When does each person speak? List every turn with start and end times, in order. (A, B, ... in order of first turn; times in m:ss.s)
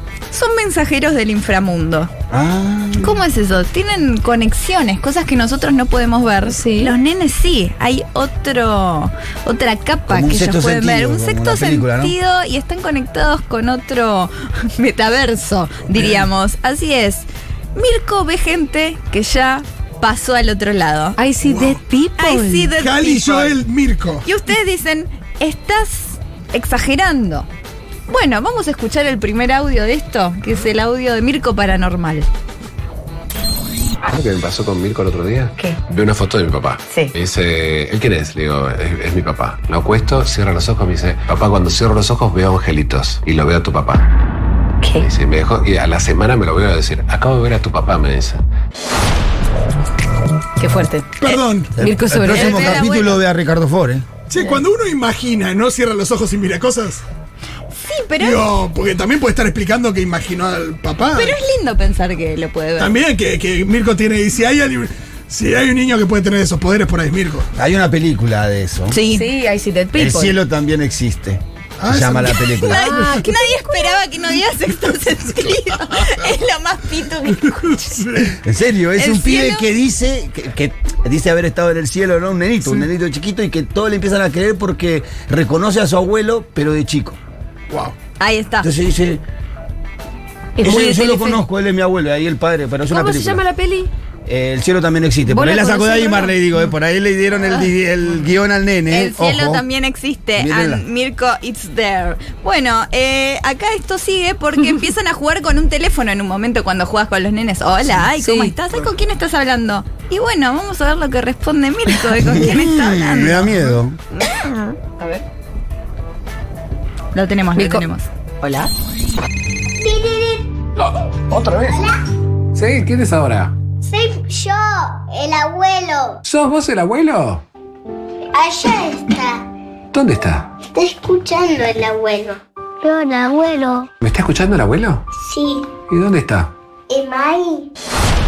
0:00.3-0:02.1 A
0:02.3-0:03.2 B
0:03.0-0:21.2 A
0:06.5-0:06.9 C
0:10.1-0:12.1 B
0:15.9-0:16.2 D
0:21.2-0:22.7 C
0:21.4-0:21.8 D
0:22.2-0:23.6 A
0:22.8-0:24.2 D
0:24.2-0:27.5 A
0:28.1-0:32.3 A
0:34.0-0:44.1 E
0:44.8-0:45.1 C
0:45.0-0:48.4 E
0:50.6-0:51.1 C
0:51.2-0:51.8 D
0:51.8-0:54.0 B
0:51.8-0:52.8 C
0:52.3-0:53.2 A
0:54.3-0:57.0 D
0:57.8-0:58.5 A
0:58.2-1:01.4 D
1:01.1-1:03.0 A
1:02.8-1:07.5 D
1:07.6-1:09.0 B
1:08.9-1:09.3 A
1:09.1-1:10.4 C
1:09.9-1:12.9 B
1:11.8-1:12.9 D
1:12.4-1:18.0 A
1:12.7-1:14.0 C
1:17.6-1:18.4 D
1:18.4-1:27.2 B
1:19.0-1:19.6 A
1:27.7-1:27.9 D
1:28.2-1:28.7 A
1:28.6-1:29.2 B
1:30.6-1:31.4 C
1:30.6-1:33.4 B
1:32.9-1:33.9 C
1:34.2-1:39.6 B
1:35.3-1:36.4 C
1:38.9-1:53.6 A
1:40.4-1:40.8 B
1:48.2-1:48.5 C
1:52.2-1:54.0 B
1:54.2-1:54.6 A
1:57.1-1:58.1 A
1:57.6-1:57.8 C
1:58.4-1:58.7 C
1:59.8-2:00.6 F
2:00.8-2:01.8 E
2:01.6-2:02.0 F
2:02.5-2:03.5 E
2:03.8-2:06.2 F
2:06.2-2:07.4 E
2:08.3-2:09.4 F
2:09.9-2:10.5 E
2:10.7-2:13.9 F
2:14.0-2:15.0 E
2:15.1-2:15.8 F
2:15.9-2:16.5 E
2:16.9-2:17.7 F